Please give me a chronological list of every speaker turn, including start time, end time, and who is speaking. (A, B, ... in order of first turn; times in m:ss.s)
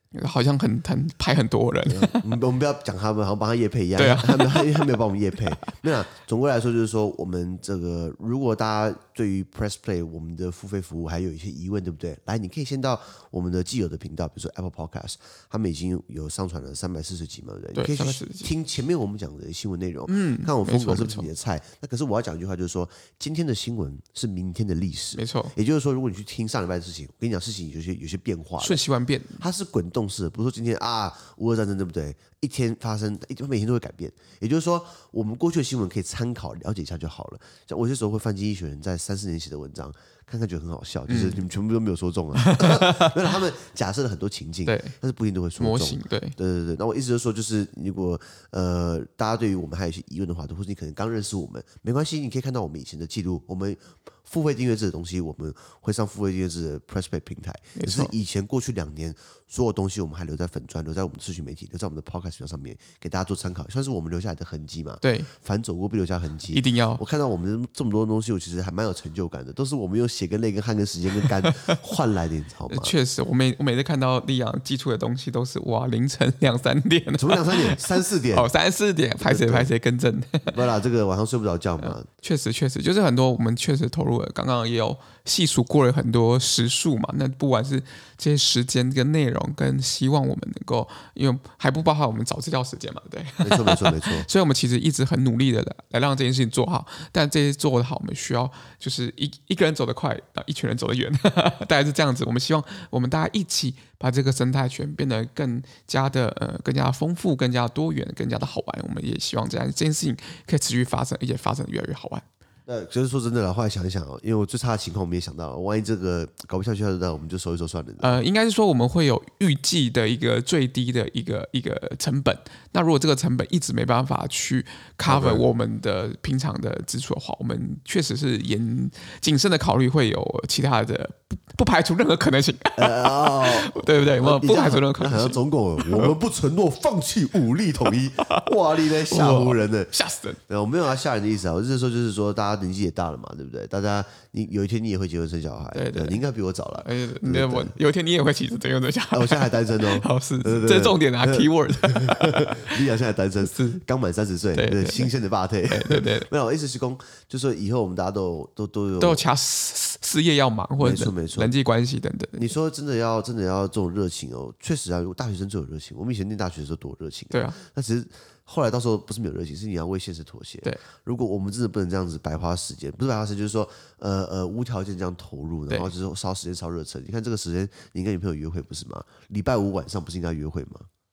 0:00.1-0:02.2 A
0:01.8-0:28.8 B
0:04.0-0:05.0 A
0:17.7-0:18.5 A
0:20.1-0:21.3 A
0:25.1-0:25.5 A
0:28.6-0:29.4 A
0:29.4-1:12.9 B
0:41.1-0:41.4 A
0:42.3-0:43.1 A
0:44.6-0:44.9 A
0:45.6-0:46.4 A
0:57.7-0:58.1 A
1:05.0-1:05.3 A
1:06.5-1:07.0 A
1:11.4-1:11.7 A
1:12.7-1:20.6 A
1:17.2-1:18.5 B
1:19.2-1:19.7 B
1:20.4-1:22.1 B
1:21.8-1:52.2 A
1:33.4-1:34.3 B
1:52.6-1:58.2 B
1:58.0-2:16.1 A
2:05.0-2:05.5 B
2:12.8-2:19.9 B
2:18.2-2:18.5 A
2:19.0-2:20.4 A
2:20.5-2:27.7 B
2:25.7-2:26.2 A
2:26.8-2:32.8 A
2:29.1-2:39.2 B
2:33.4-2:33.8 A
2:34.5-2:35.1 A
2:35.7-2:36.3 A
2:39.0-2:42.5 A
2:40.8-2:41.5 B
2:42.4-3:00.9 B
2:47.3-2:47.6 A